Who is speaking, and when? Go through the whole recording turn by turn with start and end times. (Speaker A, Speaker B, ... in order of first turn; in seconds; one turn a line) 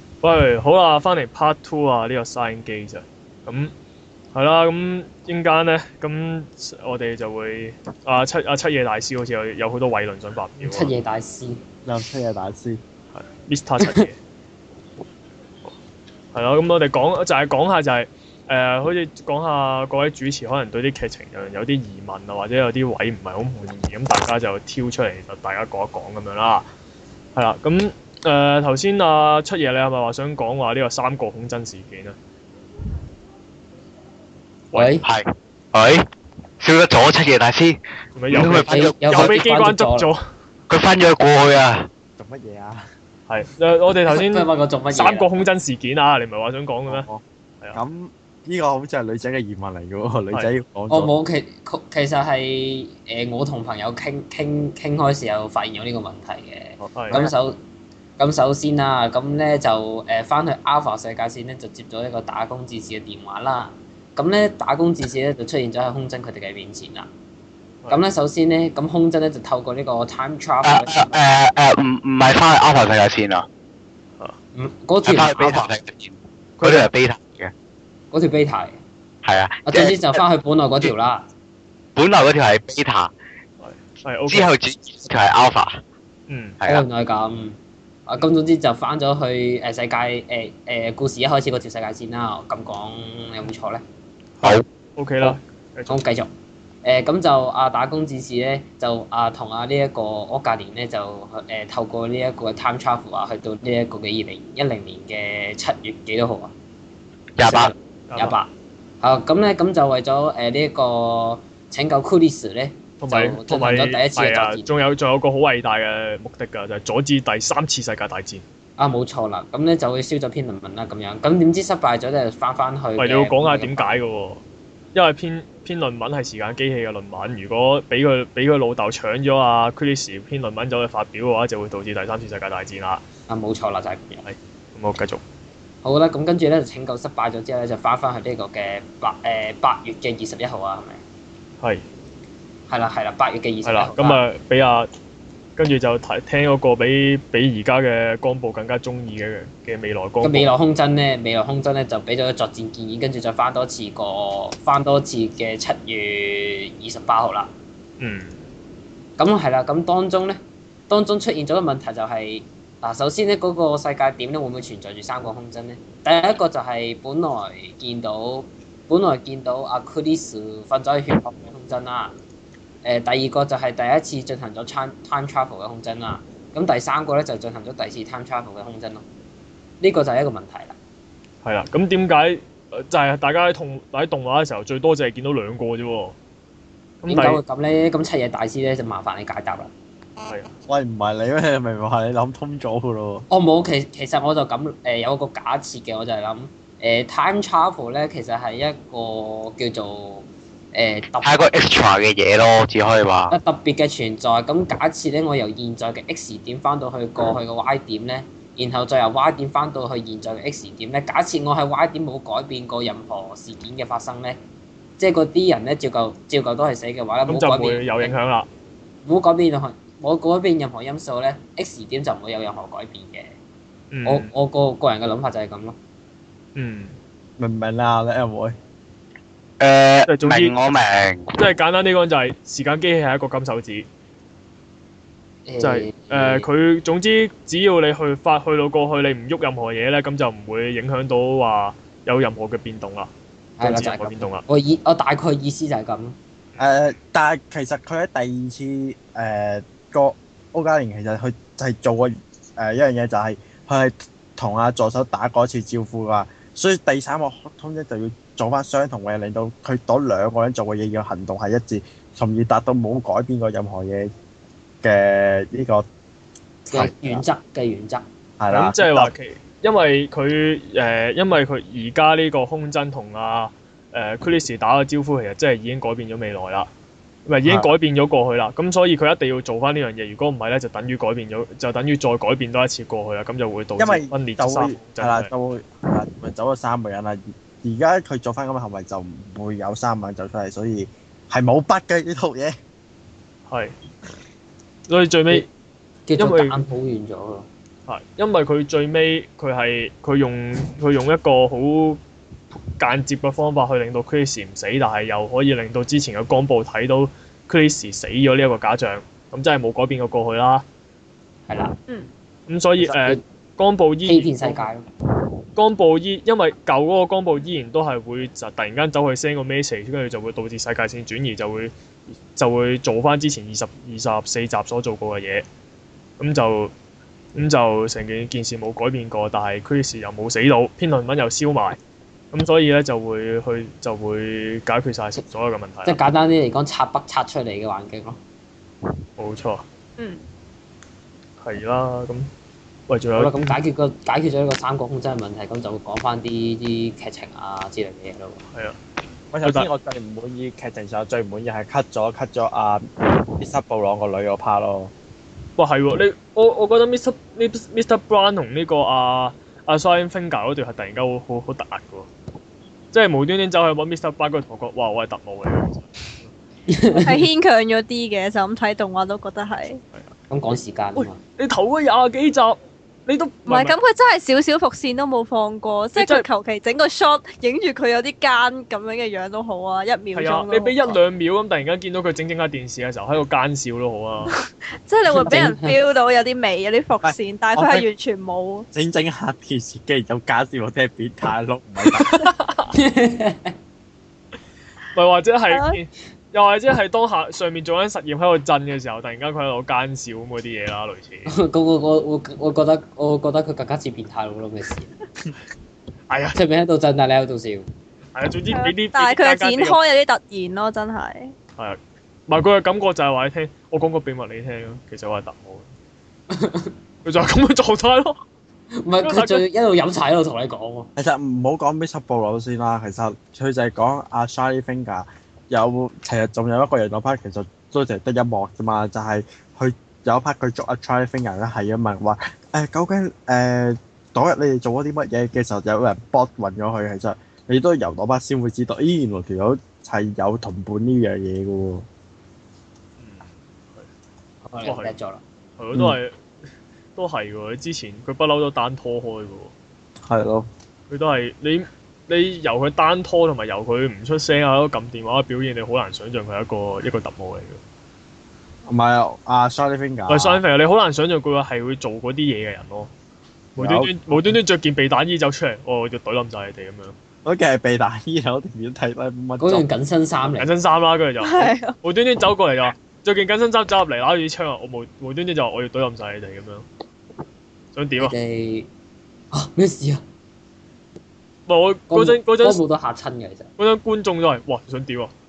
Speaker A: 0.2-3.7
Speaker A: 4.3-10.9
Speaker B: 10.6-11.6
Speaker C: 11.8-12.8
Speaker A: 13.1-14.2
Speaker A: 16.3-26.7
Speaker A: 27.4-32.1
Speaker B: 34.7-35.0
Speaker D: 35.0-36.1
Speaker D: 36.6-37.8
Speaker A: 38.1-40.2
Speaker D: 38.3-39.4
Speaker B: 38.5-40.1
Speaker D: 40.7-41.9
Speaker C: 42.2-42.8
Speaker A: 43.3-47.0
Speaker B: 44.1-45.4
Speaker C: 46.9-47.2
Speaker C: 47.7-51.1
Speaker B: 50.9-57.6
Speaker A: 56.8-57.2
Speaker B: 58.2-67.1
Speaker B: 67.9-71.2
Speaker D: 70.6-73.5
Speaker B: 74.5-75.7
Speaker D: 75.0-77.5
Speaker A: 76.6-76.9
Speaker B: 78.1-78.8
Speaker D: 79.2-80.2
Speaker B: 79.7-81.2
Speaker D: 82.0-83.1
Speaker A: 83.6-84.5
Speaker D: 84.3-85.8
Speaker A: 86.3-86.6
Speaker D: 86.6-86.9
Speaker B: 86.6-87.6
Speaker B: 88.1-93.8
Speaker A: 94.4-96.0
Speaker B: 95.9-96.3
Speaker B: 96.8-106.5
Speaker D: 107.4-107.7
Speaker B: 107.4-108.5
Speaker A: 108.1-108.4
Speaker B: 109.0-114.7
Speaker A: 113.0-118.4
Speaker B: 118.8-124.0
Speaker A: 123.0-124.4
Speaker A: 124.9-133.0
Speaker B: 133.3-134.2
Speaker A: 134.2-135.2
Speaker B: 135.8-141.0
Speaker B: 142.7-144.2
Speaker A: 143.6-144.9
Speaker A: 145.6-150.5
Speaker B: 150.2-157.5
Speaker A: 158.0-158.4
Speaker B: 159.2-172.1
Speaker B: 172.8-179.0
Speaker B: 179.8-180.8
Speaker A: 181.4-186.1
Speaker A: 187.0-187.4
Speaker B: 187.1-189.7
Speaker A: 190.2-190.5
Speaker C: 190.7-193.2
Speaker B: 193.3-201.5
Speaker D: 201.2-203.4
Speaker B: 203.3-214.4
Speaker B: 215.0-218.1
Speaker A: 217.3-218.5
Speaker B: 219.0-223.3
Speaker A: 223.9-224.3
Speaker B: 224.1-225.8
Speaker A: 226.5-226.9
Speaker C: 227.4-228.6
Speaker D: 229.6-231.4
Speaker A: 230.1-230.5
Speaker A: 231.3-233.9
Speaker B: 235.4-236.5
Speaker A: 235.6-244.4
Speaker B: 243.6-246.1
Speaker C: 246.6-264.1
Speaker C: 264.8-265.8
Speaker B: 266.7-268.0
Speaker C: 266.7-267.2
Speaker C: 268.4-269.1
Speaker A: 268.5-276.7
Speaker A: 277.3-285.3
Speaker C: 277.4-277.7
Speaker C: 283.8-292.6
Speaker A: 293.5-293.7
Speaker A: 294.9-295.5
Speaker B: 296.1-297.5
Speaker A: 296.2-296.6
Speaker A: 297.9-302.0
Speaker A: 302.8-310.6
Speaker B: 311.5-311.8
Speaker A: 312.5-314.6
Speaker B: 312.8-313.2
Speaker B: 314.1-314.8
Speaker A: 315.5-321.7
Speaker A: 322.3-325.4
Speaker A: 326.2-326.7
Speaker A: 327.3-331.8
Speaker A: 332.3-336.0
Speaker B: 335.8-338.2
Speaker A: 339.2-339.6
Speaker E: 340.0-340.2
Speaker A: 341.4-342.3
Speaker A: 342.9-343.6
Speaker B: 343.2-348.4
Speaker C: 349.3-352.9
Speaker C: 353.4-354.9
Speaker A: 355.6-362.1
Speaker A: 362.9-366.3
Speaker B: 366.7-367.3
Speaker E: 366.9-369.8
Speaker B: 370.3-371.2
Speaker A: 370.9-373.8
Speaker E: 373.5-380.9
Speaker A: 375.9-376.2
Speaker A: 380.1-384.3
Speaker E: 384.9-388.7
Speaker B: 385.1-385.8
Speaker C: 387.0-387.9
Speaker C: 388.7-392.2
Speaker A: 392.0-392.7
Speaker B: 392.7-393.5
Speaker A: 394.9-401.4
Speaker E: 395.5-395.8
Speaker B: 401.3-404.9
Speaker A: 406.1-406.4
Speaker B: 406.3-407.6
Speaker A: 408.1-409.8
Speaker E: 408.5-411.3
Speaker A: 411.6-415.6
Speaker B: 416.3-416.7
Speaker A: 417.0-418.2
Speaker B: 418.8-420.9
Speaker A: 419.0-419.4
Speaker C: 420.9-441.9
Speaker A: 443.0-443.9
Speaker B: 444.4-445.2
Speaker A: 444.6-444.9
Speaker A: 445.6-446.2
Speaker A: 446.9-449.5
Speaker C: 450.1-450.5
Speaker A: 450.9-457.6
Speaker C: 458.7-460.4
Speaker A: 460.1-462.9
Speaker C: 463.6-464.0
Speaker A: 463.6-466.9
Speaker C: 467.2-469.7
Speaker B: 469.4-470.5
Speaker A: 470.4-476.6
Speaker E: 471.2-471.7
Speaker A: 477.7-478.1
Speaker B: 478.0-478.7
Speaker B: 479.3-480.0
Speaker A: 481.5-482.6
Speaker B: 481.9-483.5
Speaker A: 483.6-485.1